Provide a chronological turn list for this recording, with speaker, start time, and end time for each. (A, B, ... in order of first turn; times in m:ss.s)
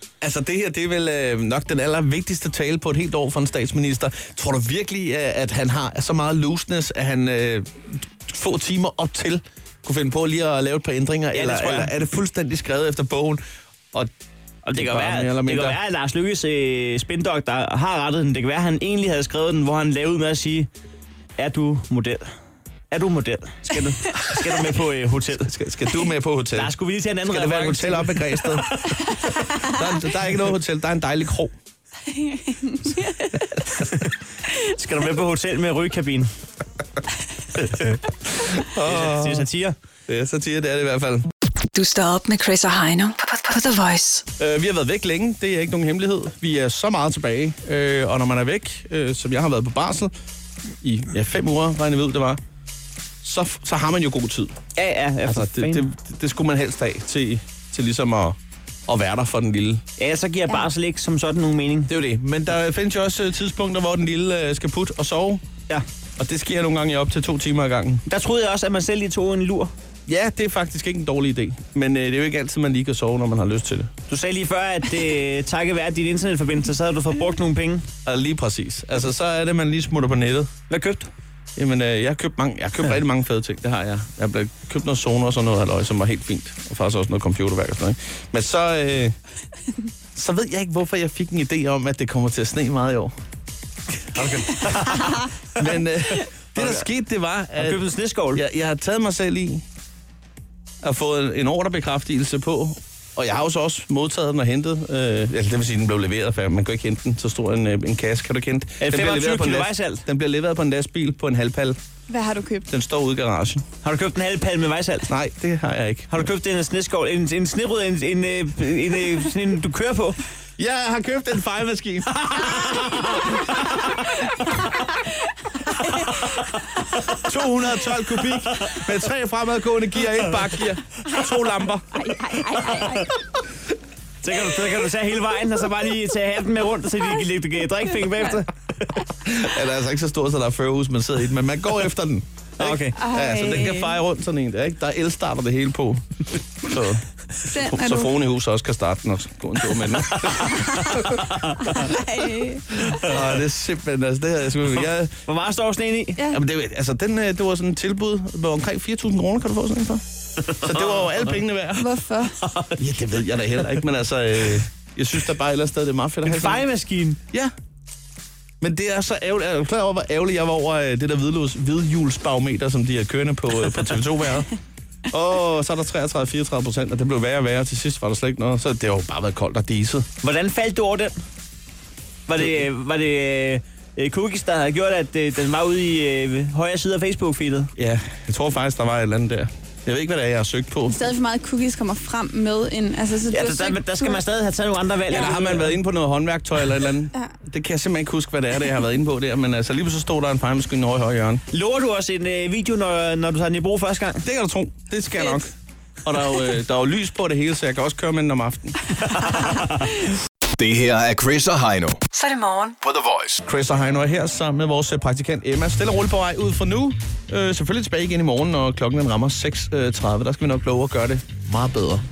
0:00.2-0:14.1 A
0:11.3-0:11.9 B
0:14.6-0:20.7 B
0:14.7-0:15.8 A
0:21.4-0:22.3 B
0:22.9-0:25.5 B
0:25.3-0:26.7 A
0:26.5-0:29.4 B
0:27.2-0:31.5 A
0:32.1-0:33.7 C
0:34.6-0:36.3 B
0:37.6-0:38.0 B
0:38.3-0:39.5 A
0:38.8-0:39.8 B
0:40.1-0:41.3 A
0:41.7-0:44.2 D
0:44.4-0:50.1 A
0:50.8-0:52.4 A
0:53.2-0:54.6 A
0:54.8-0:55.9 B
0:55.2-0:59.8 A
1:00.0-1:01.9 B
1:01.9-1:05.4 A
1:06.2-1:08.0 A
1:08.1-1:09.7 B
1:10.1-1:13.9 A
1:14.1-1:17.9 B
1:18.0-1:20.5 A
1:20.7-1:21.1 B
1:21.6-1:29.2 A
1:30.1-1:33.1 A
1:34.1-1:39.6 A
1:34.2-1:35.6 B
1:36.6-1:36.8 B
1:37.6-1:38.4 B
1:40.8-1:51.8 A
1:48.8-1:50.0 B
1:52.1-1:52.7 C
1:52.7-1:53.6 A
1:53.8-1:55.1 B
1:55.1-1:56.2 A
1:56.1-2:00.2 B
2:00.6-2:04.0 A
2:02.4-2:03.3 B
2:05.8-2:06.1 C
2:06.8-2:07.3 B
2:07.0-2:13.0 A
2:08.0-2:08.9 B
2:12.0-2:13.2 C
2:14.2-2:19.0 B
2:19.2-2:31.3 A
2:22.6-2:23.0 B
2:23.0-2:24.0 C
2:27.4-2:28.1 C
2:30.1-2:31.9 B
2:30.5-2:31.0 C
2:31.7-2:32.7 C
2:32.9-2:35.1 A
2:35.2-2:36.2 B
2:36.3-2:42.0 A
2:40.5-2:41.2 B
2:41.7-2:42.3 C
2:42.4-2:42.8 B
2:42.8-2:46.6 A
2:46.2-2:47.2 B
2:48.6-2:54.5 A
2:55.1-3:00.1 A
3:00.2-3:01.1 B
3:02.3-3:07.7 B
3:07.8-3:11.0 A
3:10.9-3:14.2 C
3:13.3-3:15.7 B
3:15.1-3:15.6 C
3:15.1-3:21.4 A
3:21.5-3:24.2 B
3:24.2-3:25.5 A
3:26.0-3:28.9 A
3:29.0-3:29.9 B
3:30.5-3:32.1 E
3:32.1-3:32.8 D
3:32.8-3:33.4 E
3:33.4-3:42.0 A